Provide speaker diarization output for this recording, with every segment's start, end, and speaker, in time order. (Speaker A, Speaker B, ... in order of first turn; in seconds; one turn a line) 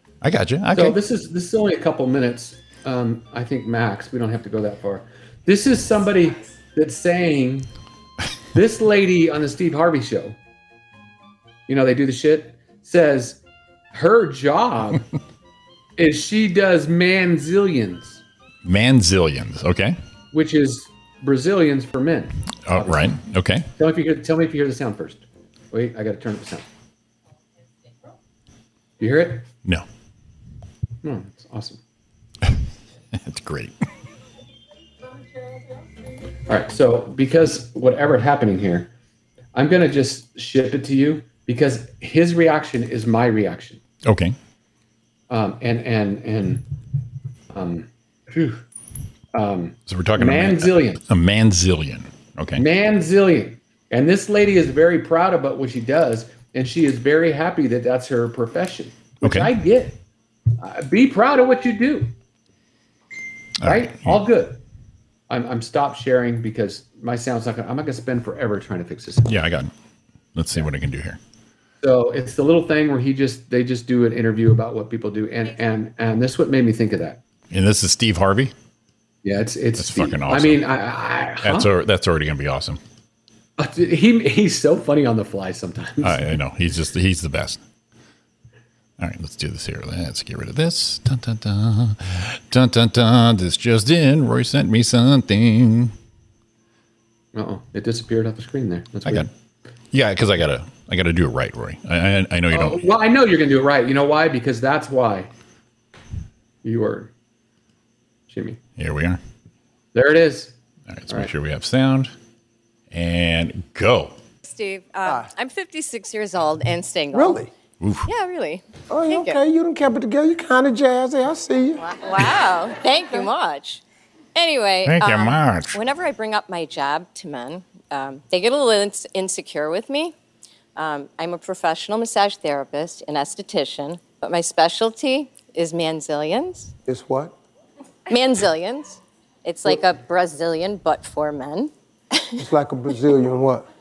Speaker A: 0.2-1.0
Speaker B: 0.7-7.7
Speaker B: 8.5-10.4
Speaker B: 11.7-13.4
Speaker B: 13.9-15.1
Speaker B: 16.0-18.2
Speaker A: 18.6-20.0
Speaker B: 20.3-23.2
Speaker A: 22.7-23.7
Speaker B: 23.8-26.7
Speaker B: 29.0-29.5
Speaker B: 31.0-31.8
Speaker A: 33.1-33.8
Speaker B: 36.5-38.9
Speaker B: 39.5-43.8
Speaker A: 44.0-44.4
Speaker B: 45.3-46.6
Speaker B: 47.5-48.6
Speaker B: 49.3-51.0
Speaker A: 49.9-52.6
Speaker B: 52.6-60.0
Speaker A: 59.2-59.5
Speaker B: 60.6-62.1
Speaker A: 63.6-64.2
Speaker B: 63.6-64.6
Speaker B: 65.3-69.4
Speaker A: 69.3-69.7
Speaker A: 70.3-71.2
Speaker B: 71.8-77.2
Speaker A: 77.5-78.5
Speaker B: 79.2-81.7
Speaker A: 79.8-80.7
Speaker A: 81.4-82.8
Speaker B: 83.6-86.3
Speaker A: 86.0-87.6
Speaker A: 89.0-95.9
Speaker B: 97.3-99.3
Speaker A: 99.9-102.9
Speaker B: 102.5-105.3
Speaker B: 106.6-107.1
Speaker B: 108.3-108.6
Speaker A: 108.8-109.2
Speaker B: 109.9-110.5
Speaker A: 110.9-112.1
Speaker A: 112.9-114.2
Speaker C: 114.4-117.5
Speaker D: 117.1-117.5
Speaker A: 117.8-118.1
Speaker C: 118.1-119.4
Speaker D: 118.9-121.8
Speaker C: 121.8-123.8
Speaker C: 124.3-130.2
Speaker A: 124.8-125.8
Speaker C: 130.8-136.7
Speaker D: 136.9-137.3
Speaker C: 138.1-142.4
Speaker D: 142.4-143.7